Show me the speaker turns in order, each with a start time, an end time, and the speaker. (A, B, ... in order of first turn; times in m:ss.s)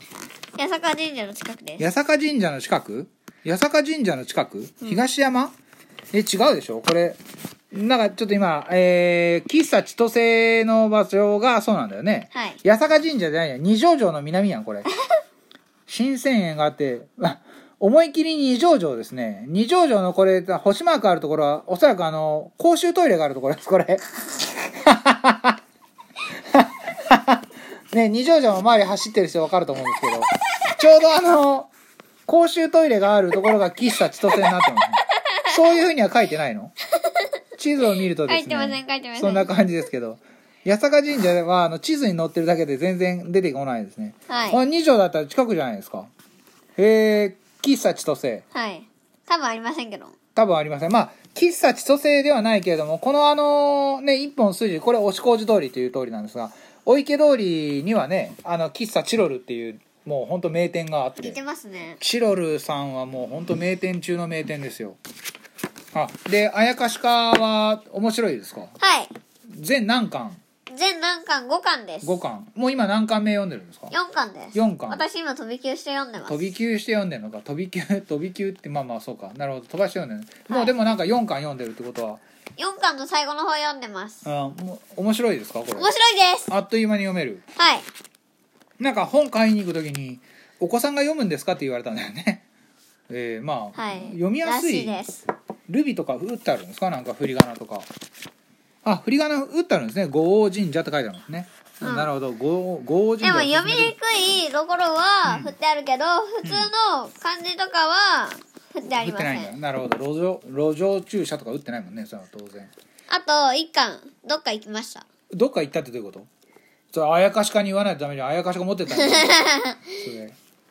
0:00.6-0:01.8 A
0:01.8-0:05.5 B
0:06.1-0:07.2 B
0:07.7-0:14.9 B
0:12.3-0:12.6 A
0:15.9-0:25.6 B
0:26.5-0:27.4 B
0:27.9-0:31.7 B
0:32.3-0:36.7 B
0:37.0-0:37.3 A
0:37.6-0:46.1 B
0:38.3-0:39.5 A
0:44.3-0:44.6 A
0:46.8-0:48.4 B
0:48.5-0:50.1 A
0:50.3-1:01.4 B
1:01.2-1:02.0 A
1:02.0-1:05.0 B
1:05.9-1:08.7 B
1:08.8-1:09.1 A
1:09.5-1:10.4 B
1:10.7-1:12.2 A
1:12.0-1:13.9 B
1:13.9-1:16.5 A
1:14.5-1:15.0 B
1:16.3-1:22.2 B
1:22.6-1:24.2 A
1:24.2-1:25.9 B
1:25.8-1:26.5 A
1:26.5-1:27.4 B
1:27.6-1:27.8 A
1:28.8-1:32.4 B
1:33.1-1:35.0 B
1:33.7-1:35.2 A
1:35.7-1:37.9 B
1:38.8-1:43.9 B
1:41.8-1:42.1 A
1:43.2-1:49.5 A
1:45.2-1:45.5 B
1:46.4-1:46.7 B
1:49.0-1:52.7 B
1:53.1-1:55.0 A
1:55.3-1:56.3 B
1:56.9-1:59.4 B
1:58.9-2:00.0 A
2:00.0-2:00.4 B